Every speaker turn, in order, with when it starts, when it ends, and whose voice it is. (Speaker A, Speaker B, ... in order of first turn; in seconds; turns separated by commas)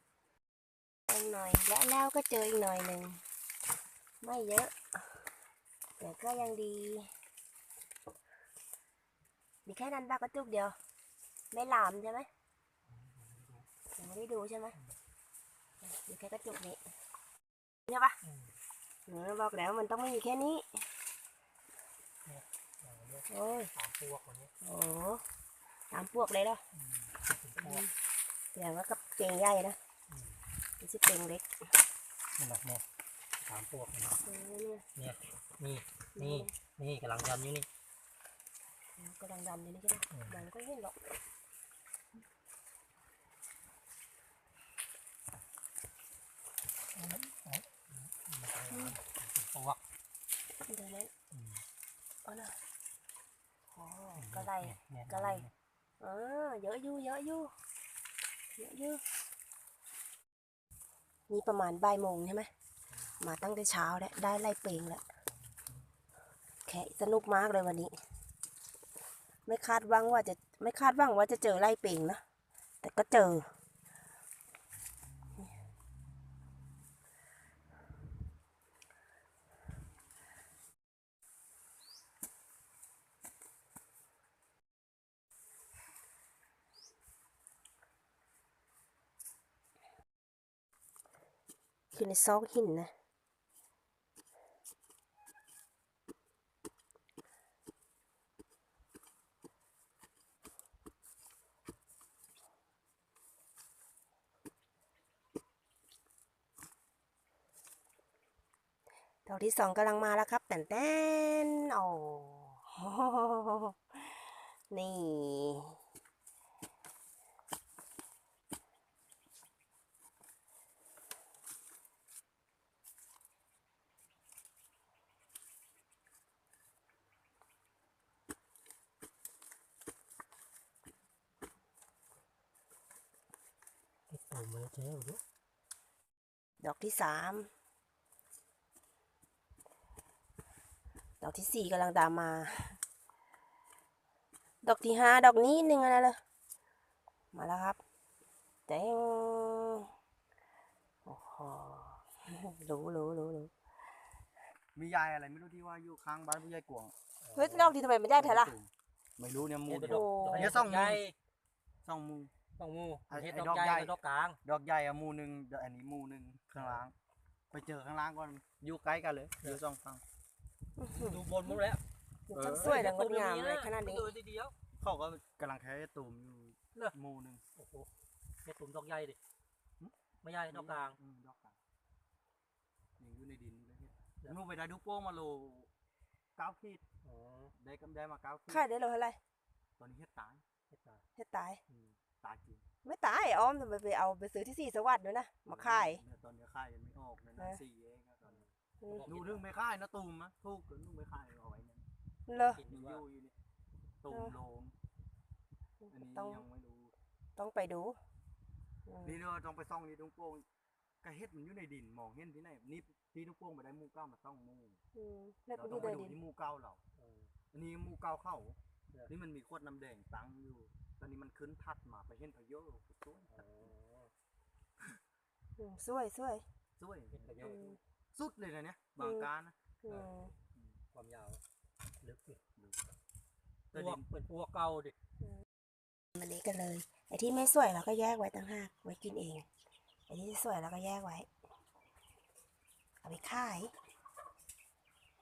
Speaker A: 1.1-3.2, Speaker A: 4.2-4.8, Speaker A: 6.0-7.1, Speaker A: 9.7-10.8, Speaker A: 11.5-12.3, Speaker B: 12.9-13.7, Speaker A: 13.9-14.8, Speaker A: 15.8-16.8, Speaker A: 17.9-18.2, Speaker B: 18.2-18.5, Speaker A: 19.1-20.8, Speaker B: 22.2-24.5, Speaker A: 23.3-23.7, Speaker A: 24.6-25.2, Speaker A: 25.9-26.6, Speaker B: 26.8-27.9, Speaker A: 27.6-27.9, Speaker A: 28.5-29.8, Speaker B: 30.1-30.4, Speaker A: 30.8-31.5, Speaker B: 32.4-32.8, Speaker B: 33.5-34.2, Speaker A: 34.2-34.9, Speaker B: 35.0-37.7, Speaker A: 36.2-36.5, Speaker A: 39.0-41.0, Speaker B: 40.1-40.4, Speaker B: 47.0-49.8, Speaker A: 48.7-49.0, Speaker A: 50.7-51.1, Speaker B: 51.3-51.6, Speaker A: 52.2-52.6, Speaker A: 53.7-55.5, Speaker B: 54.2-55.5, Speaker A: 56.0-57.5, Speaker A: 58.6-59.0, Speaker A: 61.3-62.5, Speaker A: 63.2-65.0, Speaker A: 66.7-68.0, Speaker A: 69.5-72.2, Speaker A: 72.8-73.5, Speaker A: 91.9-92.9, Speaker A: 109.3-114.1, Speaker A: 114.7-115.8, Speaker B: 134.1-135.2, Speaker A: 136.6-137.5, Speaker A: 141.2-142.8, Speaker A: 144.6-146.2, Speaker A: 147.3-147.8, Speaker A: 148.7-149.9, Speaker A: 151.1-153.5, Speaker C: 154.8-156.9, Speaker B: 157.2-157.8, Speaker A: 157.3-158.5, Speaker C: 158.2-161.0, Speaker B: 159.6-161.2, Speaker A: 159.8-160.6, Speaker C: 161.8-162.3, Speaker B: 162.6-164.4, Speaker C: 163.1-166.9, Speaker B: 166.6-166.8, Speaker C: 167.5-170.0, Speaker A: 170.8-171.6, Speaker B: 170.9-171.8, Speaker A: 172.3-174.1, Speaker C: 172.3-172.8, Speaker B: 172.6-174.5, Speaker C: 174.8-177.4, Speaker B: 177.6-177.9, Speaker B: 178.4-179.2, Speaker B: 180.2-181.0, Speaker C: 180.5-181.6, Speaker C: 183.0-185.7, Speaker C: 186.4-186.8, Speaker B: 187.0-187.5, Speaker C: 187.6-188.6, Speaker A: 188.5-189.2, Speaker C: 189.8-190.4, Speaker B: 190.7-191.0, Speaker A: 191.2-191.6, Speaker C: 191.7-192.6, Speaker A: 192.8-196.0, Speaker C: 195.5-198.4, Speaker B: 198.3-199.4, Speaker A: 198.8-199.1, Speaker C: 199.1-201.9, Speaker A: 202.3-202.6, Speaker B: 202.5-203.0, Speaker C: 202.6-203.3, Speaker C: 204.0-204.8, Speaker A: 204.1-204.3, Speaker A: 205.8-206.4, Speaker C: 205.9-206.9, Speaker A: 207.4-208.0, Speaker A: 208.9-209.2, Speaker C: 209.0-210.5, Speaker C: 211.0-214.8, Speaker A: 214.9-216.2, Speaker C: 215.6-216.8, Speaker B: 217.0-217.3, Speaker C: 217.5-223.7, Speaker B: 223.3-224.1, Speaker A: 225.6-226.4, Speaker C: 226.8-229.6, Speaker B: 227.1-227.7, Speaker A: 227.4-227.8, Speaker A: 229.0-229.3, Speaker A: 229.8-230.3, Speaker B: 230.9-231.4, Speaker B: 232.0-232.4, Speaker C: 233.7-234.1, Speaker B: 233.7-234.9, Speaker A: 236.2-239.5, Speaker A: 240.1-241.3, Speaker A: 243.0-243.7